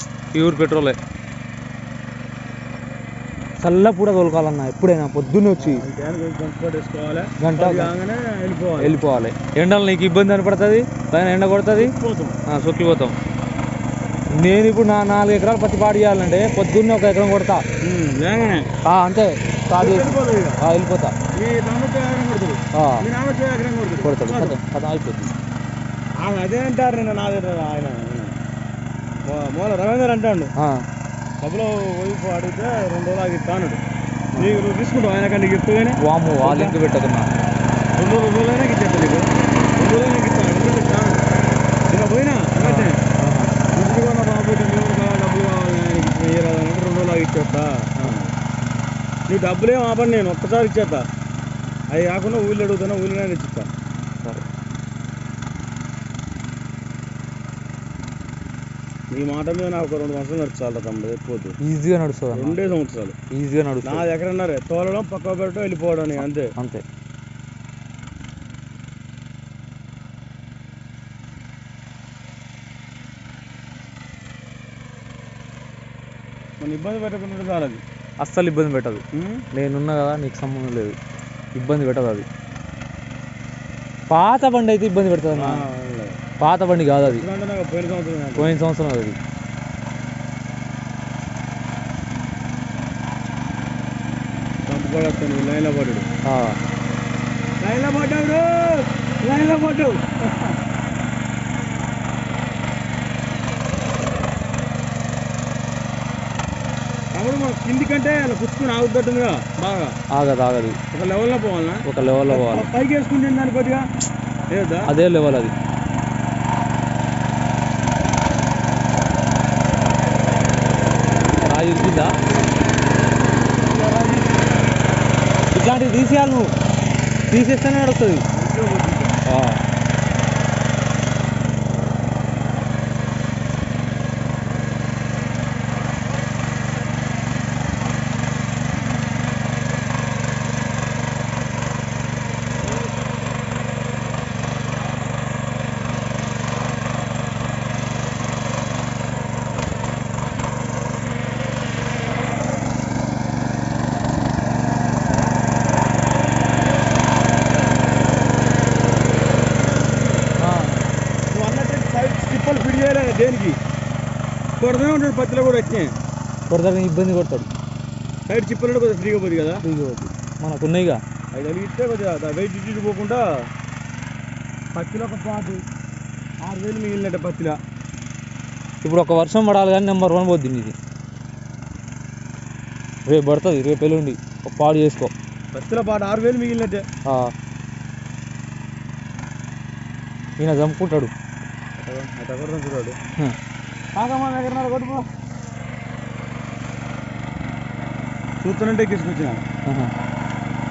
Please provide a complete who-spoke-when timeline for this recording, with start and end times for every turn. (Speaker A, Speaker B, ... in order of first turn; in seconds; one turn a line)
Speaker A: 0.3-1.0
Speaker A: 3.6-5.8
Speaker B: 5.6-8.9
Speaker A: 7.4-7.9
Speaker A: 8.8-11.9
Speaker B: 11.7-12.4
Speaker A: 12.5-13.1
Speaker A: 14.3-17.6
Speaker B: 17.8-18.7
Speaker A: 18.8-21.1
Speaker B: 19.8-20.6
Speaker B: 21.3-24.6
Speaker A: 22.7-23.1
Speaker A: 24.0-25.3
Speaker B: 26.2-28.4
Speaker B: 29.2-30.5
Speaker A: 30.6-30.9
Speaker B: 31.4-33.8
Speaker A: 34.3-34.6
Speaker B: 34.4-36.8
Speaker A: 36.0-37.3
Speaker B: 38.0-41.2
Speaker B: 41.9-43.0
Speaker A: 42.6-43.5
Speaker B: 43.7-48.3
Speaker B: 49.3-51.0
Speaker B: 51.9-53.7
Speaker B: 59.1-61.6
Speaker A: 61.6-62.6
Speaker B: 62.3-63.1
Speaker A: 63.3-64.0
Speaker B: 63.8-66.5
Speaker A: 66.2-66.8
Speaker B: 76.6-77.8
Speaker A: 78.2-80.9
Speaker B: 79.1-79.5
Speaker A: 81.5-82.3
Speaker A: 84.1-85.7
Speaker B: 85.3-86.2
Speaker A: 86.4-87.2
Speaker B: 87.0-88.6
Speaker A: 88.4-89.2
Speaker B: 94.7-96.1
Speaker A: 96.2-96.6
Speaker B: 97.6-100.5
Speaker B: 107.1-110.0
Speaker A: 110.1-110.8
Speaker B: 110.9-113.9
Speaker A: 111.8-112.7
Speaker B: 114.5-114.9
Speaker A: 114.9-115.5
Speaker A: 121.5-122.2
Speaker B: 123.6-124.4
Speaker A: 125.5-126.5
Speaker A: 127.3-128.2
Speaker B: 128.3-129.2
Speaker A: 129.2-129.6
Speaker A: 160.4-160.8
Speaker B: 161.3-163.6
Speaker B: 164.6-165.9
Speaker A: 166.5-167.5
Speaker B: 168.3-169.6
Speaker A: 169.6-171.0
Speaker B: 171.3-173.2
Speaker B: 174.7-175.6
Speaker B: 176.4-177.6
Speaker A: 178.8-180.7
Speaker A: 183.1-185.1
Speaker B: 185.5-186.8
Speaker A: 187.0-187.3
Speaker A: 190.4-191.1
Speaker B: 191.8-193.0
Speaker B: 193.9-195.1
Speaker B: 198.4-199.4
Speaker A: 199.7-199.9